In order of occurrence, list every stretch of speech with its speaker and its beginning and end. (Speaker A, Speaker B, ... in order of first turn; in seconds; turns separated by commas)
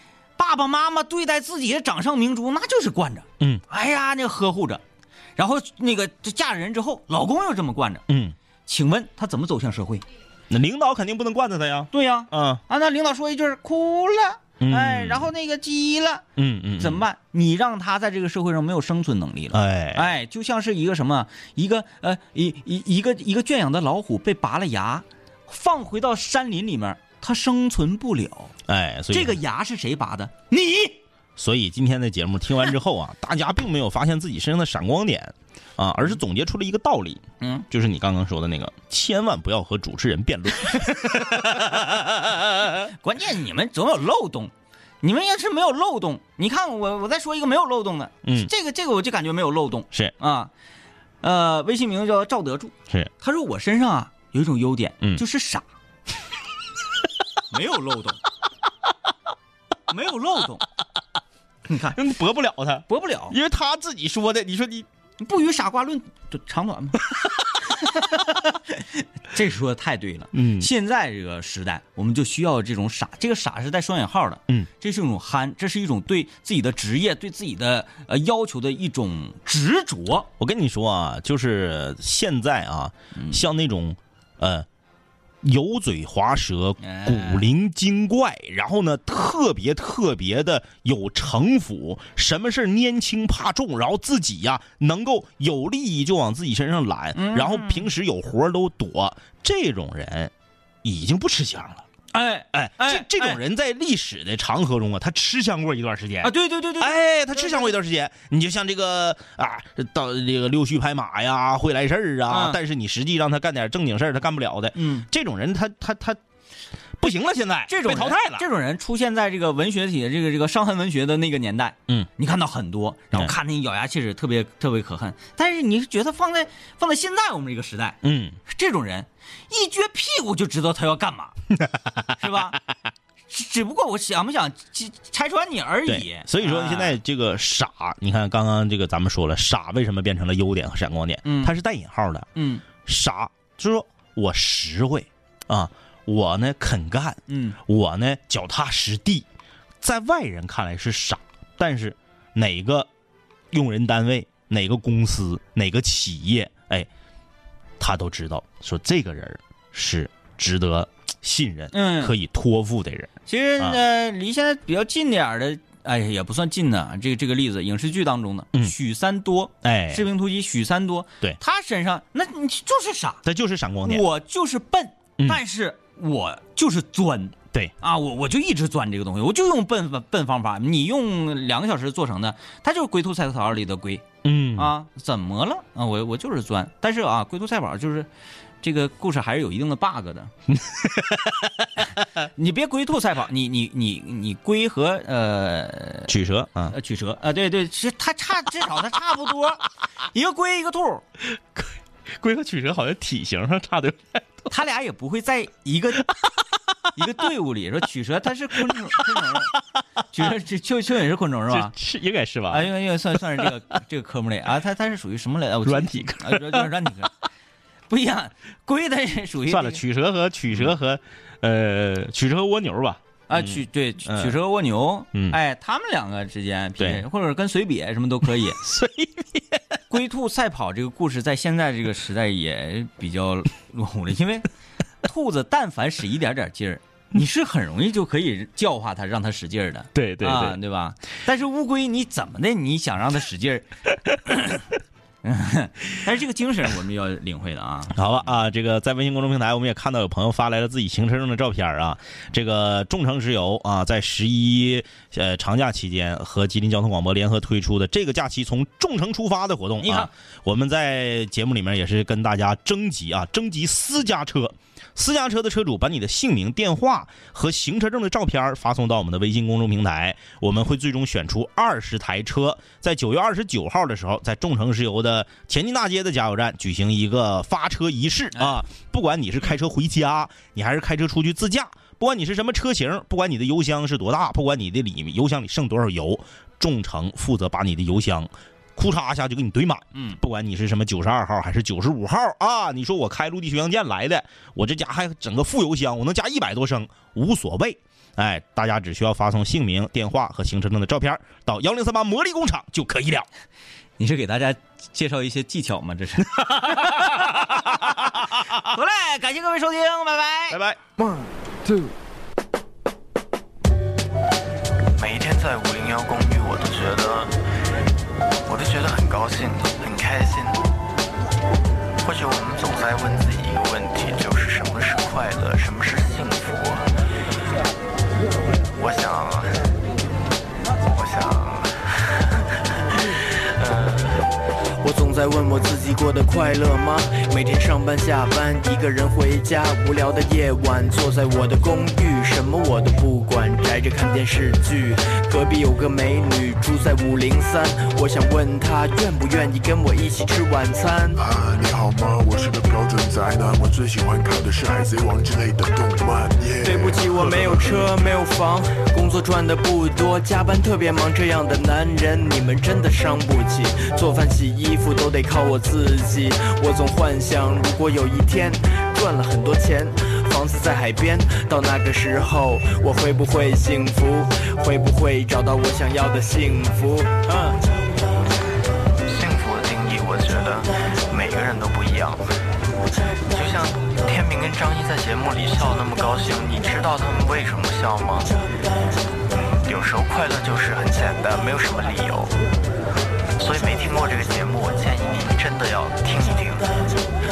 Speaker A: 0.4-4.8, Speaker A: 5.4-8.0, Speaker B: 8.1-8.4, Speaker A: 8.7-10.1, Speaker B: 10.5-12.6, Speaker A: 11.9-16.2, Speaker B: 14.6-15.3, Speaker B: 16.4-17.0, Speaker A: 16.8-28.5, Speaker B: 19.5-20.1, Speaker B: 28.7-29.4, Speaker A: 29.1-31.0, Speaker B: 31.4-42.9, Speaker A: 43.0-50.5, Speaker B: 48.2-48.5, Speaker A: 51.2-55.6, Speaker A: 57.5-58.2, Speaker A: 59.9-60.6, Speaker A: 61.7-62.0, Speaker B: 61.9-64.9, Speaker A: 62.9-63.4, Speaker A: 65.2-80.3, Speaker B: 70.3-70.7, Speaker B: 80.4-84.7, Speaker A: 83.2-83.4, Speaker B: 85.4-100.3, Speaker A: 86.8-87.5, Speaker A: 97.1-97.9, Speaker B: 100.8-101.9, Speaker A: 102.1-103.4, Speaker B: 102.5-116.2, Speaker A: 106.2-107.7, Speaker A: 112.3-112.6, Speaker A: 114.8-115.0, Speaker B: 117.0-118.5, Speaker A: 117.7-131.4, Speaker B: 128.0-128.4, Speaker A: 132.2-132.6, Speaker A: 133.3-137.0, Speaker B: 135.9-142.3, Speaker A: 141.2-141.5, Speaker A: 142.3-142.6, Speaker B: 142.8-149.3, Speaker A: 147.3-147.6, Speaker B: 149.8-152.9, Speaker B: 153.5-156.9, Speaker B: 157.8-163.8, Speaker A: 161.7-162.1, Speaker A: 163.3-173.2, Speaker B: 169.6-170.1, Speaker B: 173.2-174.1, Speaker A: 173.8-188.1, Speaker B: 184.2-184.7, Speaker A: 188.6-190.3, Speaker B: 190.5-191.7, Speaker A: 192.2-196.1, Speaker B: 196.1-196.7, Speaker A: 196.7-201.0, Speaker B: 201.3-204.5, Speaker A: 204.5-206.1, Speaker A: 206.9-209.6, Speaker B: 208.7-209.5, Speaker A: 210.1-211.7, Speaker B: 211.5-213.6, Speaker A: 212.5-217.2, Speaker B: 215.6-216.7, Speaker A: 217.9-219.8, Speaker B: 219.5-224.4, Speaker A: 223.3-228.6, Speaker B: 226.8-227.0, Speaker B: 228.6-229.6, Speaker A: 229.9-234.5, Speaker A: 235.0-243.7, Speaker B: 239.9-240.6, Speaker A: 244.3-244.6, Speaker A: 245.2-248.3, Speaker B: 247.9-303.3, Speaker A: 259.8-260.1, Speaker A: 278.3-278.6, Speaker A: 289.9-290.2, Speaker A: 304.0-310.6, Speaker B: 306.3-308.6, Speaker B: 310.5-310.8, Speaker C: 315.0-317.4, Speaker C: 318.4-320.6, Speaker C: 322.0-326.9, Speaker C: 328.7-329.7, Speaker C: 330.9-332.2, Speaker C: 333.4-334.2, Speaker D: 334.8-351.2, Speaker E: 351.2-357.9, Speaker D: 356.6-377.6, Speaker C: 379.0-382.3, Speaker C: 383.3-388.4, Speaker C: 389.3-392.3, Speaker C: 393.4-397.0